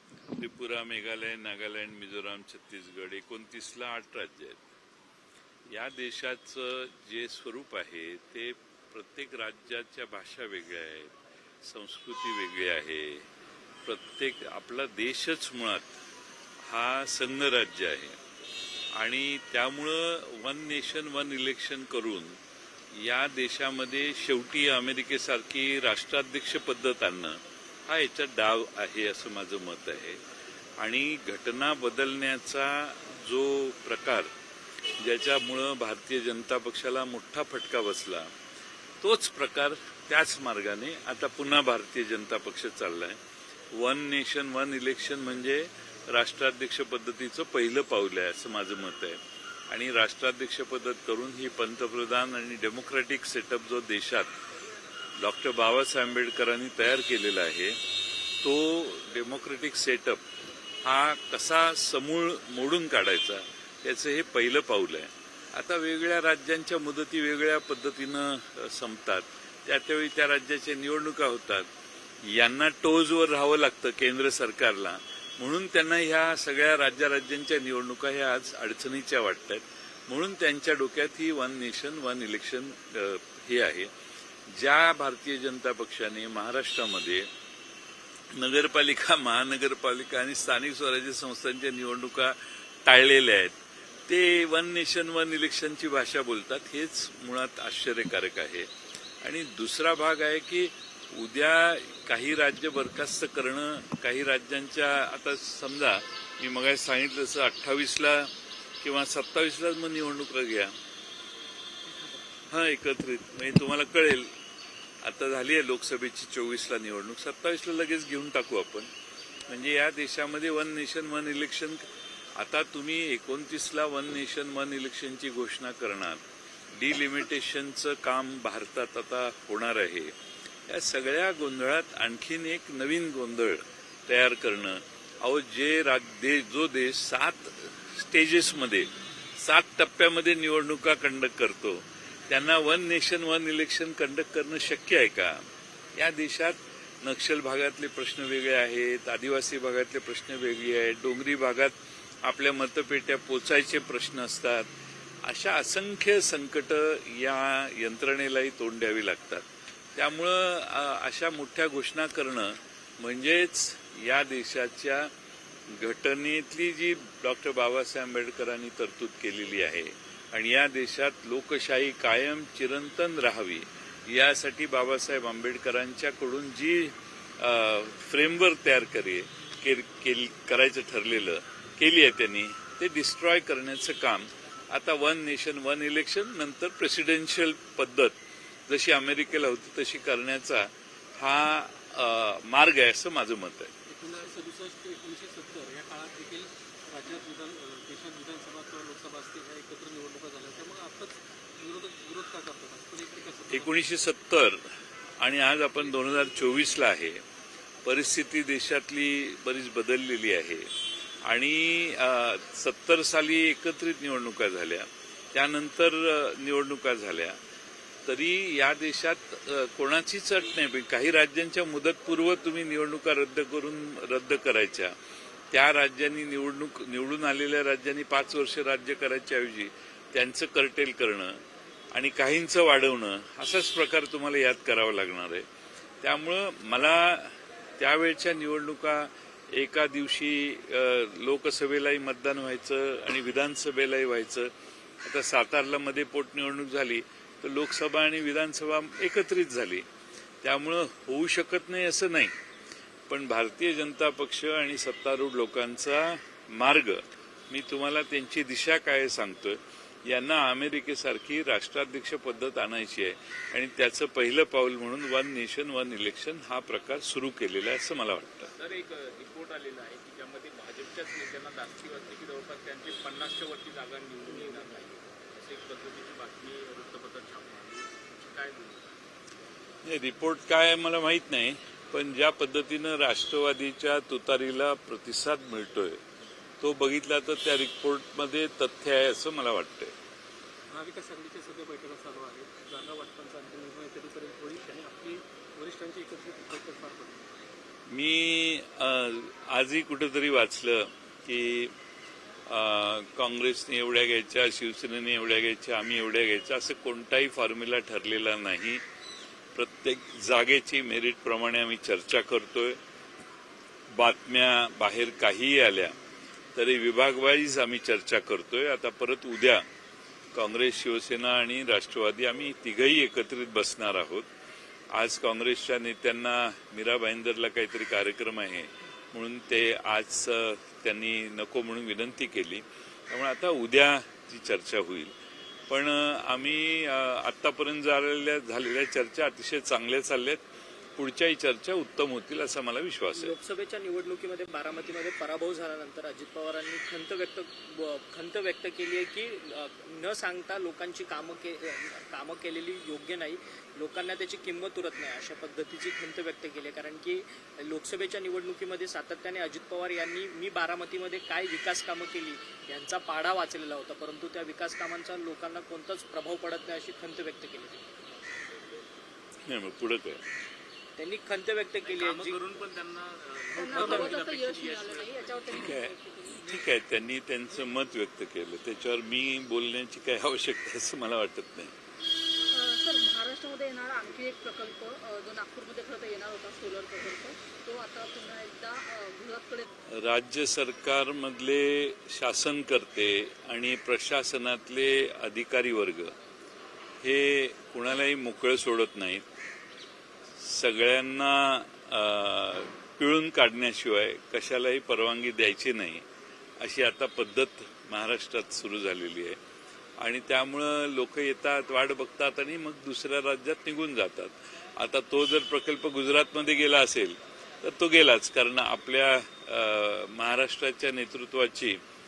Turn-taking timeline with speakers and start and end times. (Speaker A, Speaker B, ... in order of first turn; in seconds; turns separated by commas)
Speaker A: 0.3-4.6, Speaker A: 5.7-13.3, Speaker A: 13.8-15.9, Speaker A: 16.6-18.2, Speaker A: 18.9-22.4, Speaker A: 22.9-30.2, Speaker A: 30.8-34.3, Speaker A: 35.0-38.3, Speaker A: 39.0-43.2, Speaker A: 43.7-54.3, Speaker A: 55.2-57.8, Speaker A: 58.4-60.2, Speaker A: 60.8-71.7, Speaker A: 72.2-83.9, Speaker A: 84.5-87.3, Speaker A: 88.3-98.7, Speaker A: 99.2-110.7, Speaker B: 111.9-112.2, Speaker A: 112.5-114.3, Speaker A: 115.0-118.9, Speaker A: 119.5-130.1, Speaker A: 130.7-145.4, Speaker A: 145.9-154.7, Speaker A: 155.2-165.1, Speaker A: 165.7-193.7, Speaker B: 193.9-203.7, Speaker A: 203.5-204.6, Speaker A: 205.2-207.2, Speaker A: 207.8-210.7, Speaker A: 211.2-217.4, Speaker A: 218.1-224.9, Speaker A: 225.5-231.4, Speaker A: 231.9-235.5, Speaker A: 236.0-244.5, Speaker A: 245.0-249.8, Speaker A: 250.4-252.4, Speaker A: 253.1-268.5, Speaker C: 268.5-279.0, Speaker A: 279.8-286.0, Speaker A: 286.6-289.9, Speaker B: 290.7-297.3, Speaker A: 297.9-301.7, Speaker A: 302.5-308.8, Speaker A: 309.6-312.8, Speaker A: 313.9-315.9, Speaker A: 316.6-319.6, Speaker A: 320.3-324.3, Speaker A: 324.9-335.1, Speaker A: 335.7-340.4, Speaker A: 340.9-343.3, Speaker D: 343.1-367.9, Speaker A: 369.4-370.2, Speaker D: 371.0-372.4, Speaker C: 371.8-375.6, Speaker E: 373.6-376.4, Speaker D: 373.7-374.2, Speaker A: 375.5-381.7, Speaker E: 382.5-389.7, Speaker A: 389.9-396.1, Speaker A: 397.0-399.2, Speaker A: 400.4-406.1, Speaker A: 406.6-409.4, Speaker A: 410.0-421.8